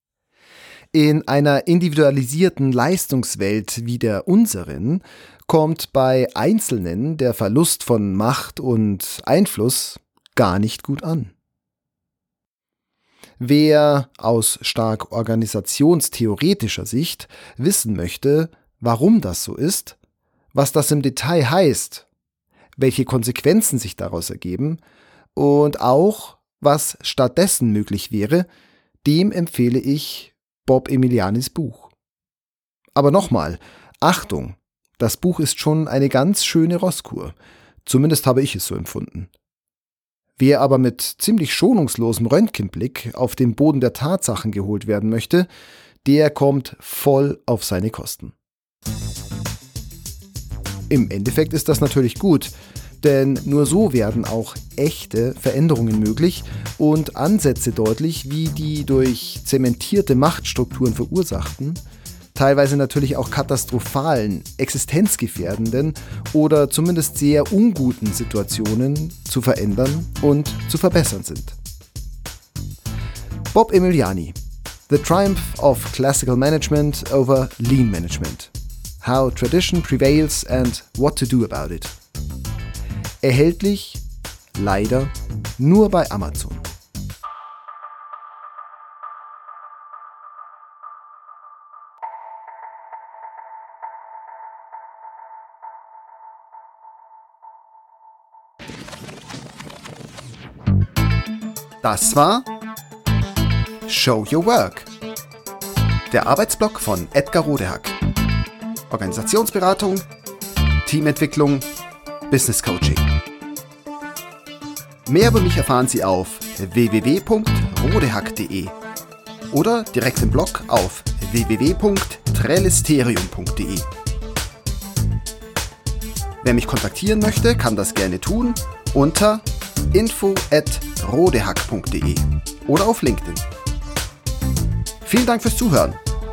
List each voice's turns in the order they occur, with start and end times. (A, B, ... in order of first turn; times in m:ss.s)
0:00.9-0:11.3 A
0:13.4-0:20.0 A
0:20.5-0:22.1 A
0:22.8-0:24.8 A
0:25.4-0:28.5 A
0:29.0-0:31.9 A
0:33.0-0:37.3 A
0:37.8-0:39.3 A
0:40.4-0:45.5 A
0:46.0-0:48.3 A
0:50.9-1:01.8 A
1:02.3-1:11.6 A
1:13.5-1:14.4 A
1:14.9-1:21.9 A
1:23.2-1:24.0 A
1:24.6-1:26.7 A
1:41.8-1:42.5 A
1:43.9-1:44.9 A
1:46.1-1:48.0 A
1:48.9-1:50.0 A
1:50.8-1:51.7 A
1:52.3-1:53.1 A
1:55.0-1:58.7 A
1:59.5-2:03.9 A
2:06.4-2:13.4 A
2:15.0-2:16.0 A